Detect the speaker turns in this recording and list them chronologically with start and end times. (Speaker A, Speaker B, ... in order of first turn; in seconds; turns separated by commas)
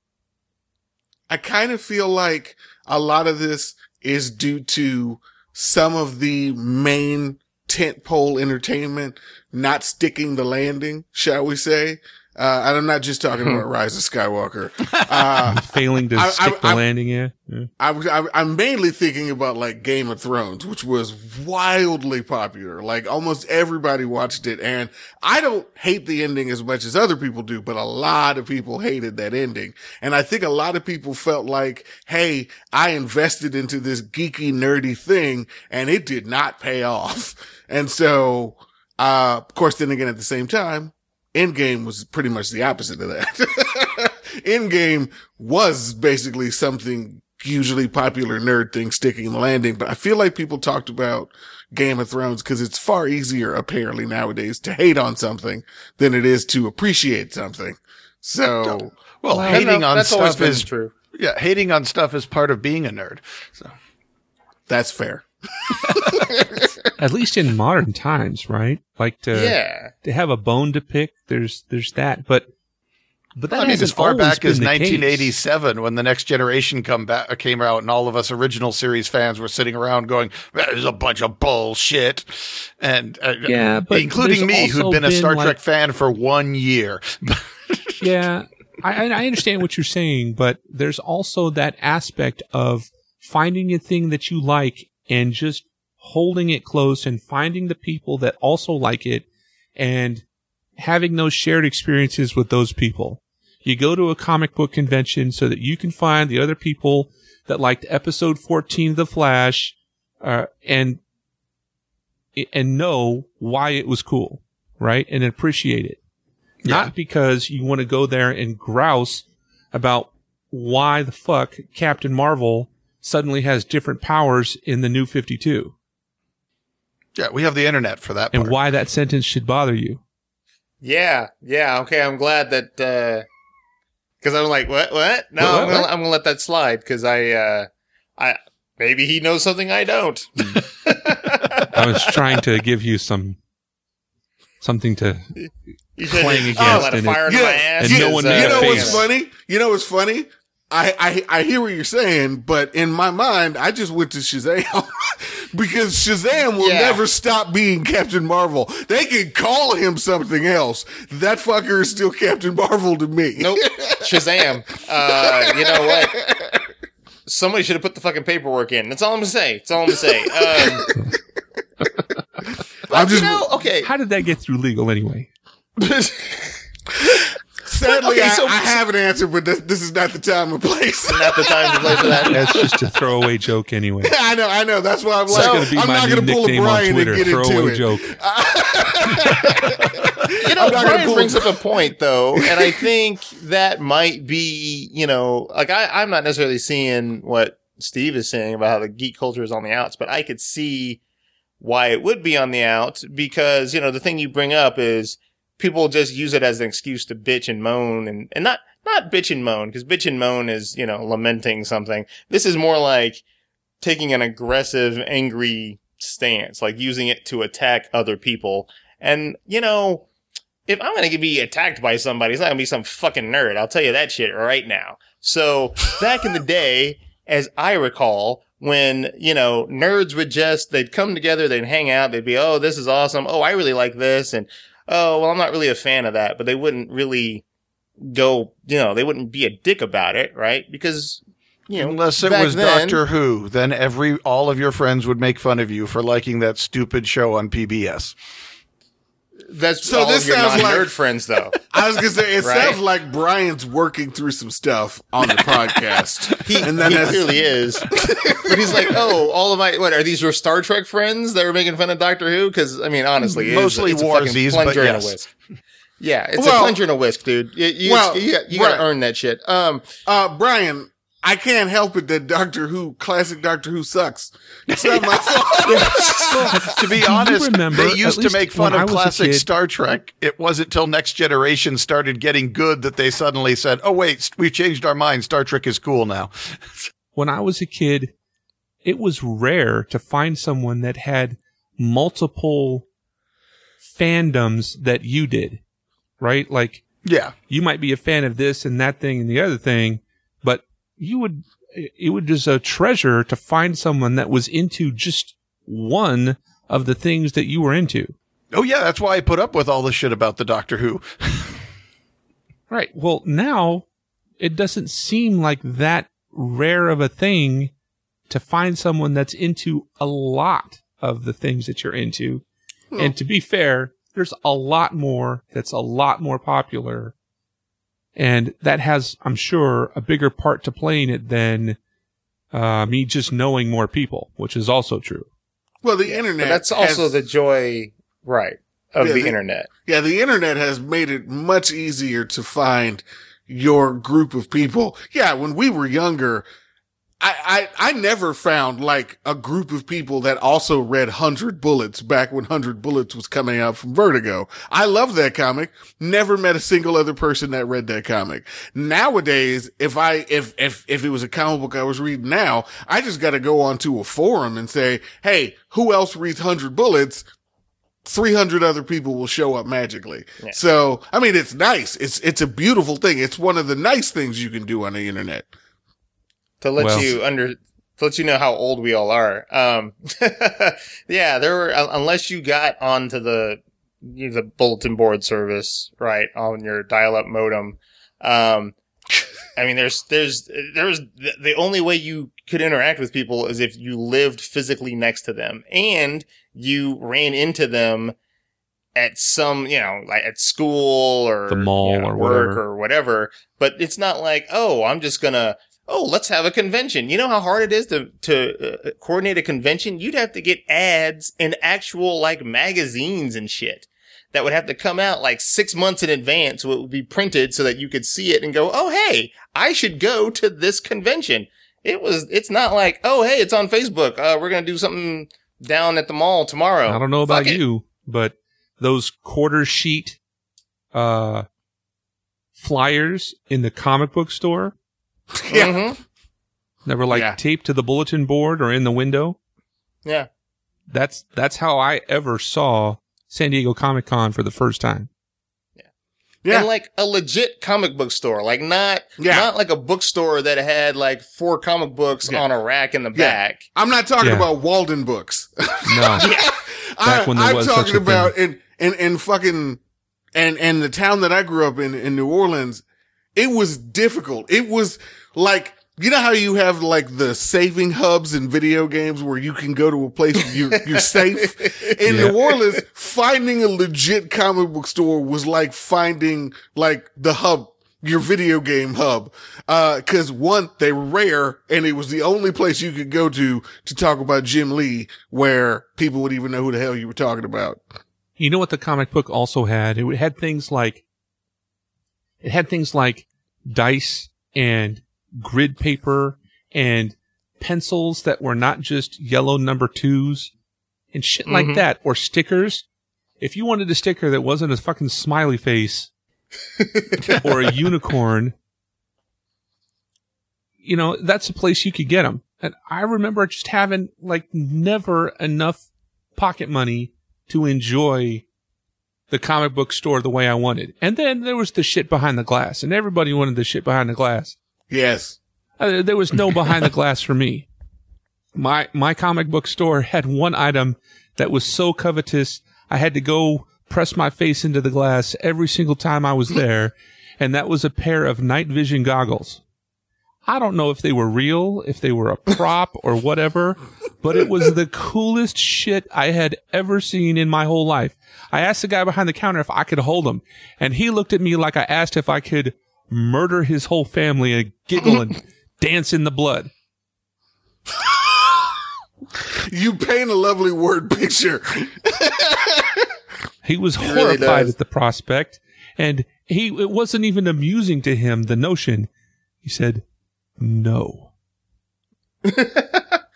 Speaker A: 1.3-16.8, Speaker B: 13.4-13.6, Speaker C: 15.5-17.7, Speaker A: 17.8-58.9, Speaker D: 58.7-63.7, Speaker C: 59.3-59.6, Speaker B: 59.4-60.9, Speaker A: 64.7-66.2, Speaker D: 65.9-66.2, Speaker C: 67.0-72.5, Speaker B: 69.3-69.9, Speaker C: 73.4-75.3, Speaker D: 73.5-88.0, Speaker C: 83.5-85.6, Speaker C: 88.0-99.3, Speaker C: 99.8-100.2, Speaker C: 100.8-111.0, Speaker C: 112.3-116.0, Speaker D: 116.6-116.9, Speaker C: 116.7-125.7, Speaker D: 127.2-128.6, Speaker C: 128.3-130.0, Speaker B: 130.8-133.2, Speaker B: 134.2-142.1, Speaker C: 135.4-135.9, Speaker C: 141.7-143.4, Speaker C: 144.6-145.4, Speaker B: 145.4-149.0, Speaker C: 146.1-147.2, Speaker A: 146.6-164.2, Speaker C: 147.8-149.1, Speaker B: 156.6-157.0, Speaker B: 163.4-166.2, Speaker A: 165.2-166.5, Speaker B: 167.3-170.9, Speaker A: 170.5-170.9, Speaker B: 172.9-173.9, Speaker A: 172.9-173.4, Speaker C: 173.8-175.3, Speaker B: 175.8-176.6, Speaker A: 177.7-182.4, Speaker B: 177.9-178.8, Speaker B: 181.1-182.4, Speaker C: 182.3-184.2, Speaker A: 184.0-191.8, Speaker C: 185.3-188.2, Speaker B: 185.3-185.7, Speaker B: 190.4-201.0, Speaker A: 192.4-192.9, Speaker B: 201.6-213.2, Speaker B: 213.8-220.1, Speaker B: 220.7-237.4, Speaker B: 238.0-243.0, Speaker D: 241.8-248.2, Speaker B: 249.5-251.6, Speaker A: 249.8-250.9, Speaker A: 251.7-257.4, Speaker B: 252.4-252.8, Speaker B: 256.4-265.3, Speaker D: 256.8-257.1, Speaker A: 258.0-259.2, Speaker D: 263.2-265.1, Speaker B: 266.0-269.9, Speaker A: 266.4-266.8, Speaker A: 267.8-268.9, Speaker A: 270.1-276.8, Speaker D: 274.7-286.9, Speaker C: 276.3-279.4, Speaker C: 287.1-288.1, Speaker C: 288.8-292.9, Speaker C: 293.8-295.6, Speaker C: 296.2-296.8, Speaker D: 297.1-297.3, Speaker C: 297.5-308.1, Speaker D: 308.5-311.6, Speaker C: 312.7-313.9, Speaker C: 314.4-317.7, Speaker C: 318.3-322.4, Speaker C: 323.0-327.1, Speaker C: 328.2-331.8, Speaker C: 332.5-335.3, Speaker A: 335.8-337.1, Speaker B: 336.1-339.7, Speaker A: 339.0-346.5, Speaker A: 347.2-367.2, Speaker A: 368.1-375.5, Speaker B: 376.6-388.8, Speaker C: 376.8-377.1, Speaker B: 389.6-398.1, Speaker B: 399.0-427.6, Speaker C: 401.5-402.6, Speaker C: 426.9-430.2, Speaker C: 430.9-431.5, Speaker C: 432.6-434.8, Speaker A: 435.4-435.8, Speaker B: 435.5-436.0, Speaker C: 436.9-439.4, Speaker A: 437.1-437.4, Speaker C: 440.9-445.1, Speaker B: 446.5-453.7, Speaker A: 449.2-449.5, Speaker A: 453.1-459.8, Speaker C: 454.2-454.5, Speaker C: 455.9-456.3, Speaker B: 456.2-456.5, Speaker C: 457.0-458.3, Speaker A: 460.4-462.8, Speaker A: 463.4-487.8, Speaker B: 470.4-472.6, Speaker C: 472.1-472.4, Speaker C: 488.4-491.0, Speaker C: 492.4-500.5, Speaker C: 501.1-502.9, Speaker B: 501.5-501.8, Speaker C: 503.4-506.1, Speaker B: 506.8-507.4, Speaker C: 507.4-508.6, Speaker C: 510.8-518.5, Speaker C: 519.3-524.6, Speaker A: 524.9-525.4, Speaker C: 525.8-527.7, Speaker C: 528.5-539.6, Speaker C: 540.5-556.7, Speaker A: 558.1-558.6, Speaker A: 559.5-563.1, Speaker C: 563.6-569.1, Speaker B: 564.0-564.7, Speaker C: 569.6-570.0, Speaker C: 570.6-571.3, Speaker B: 572.4-573.2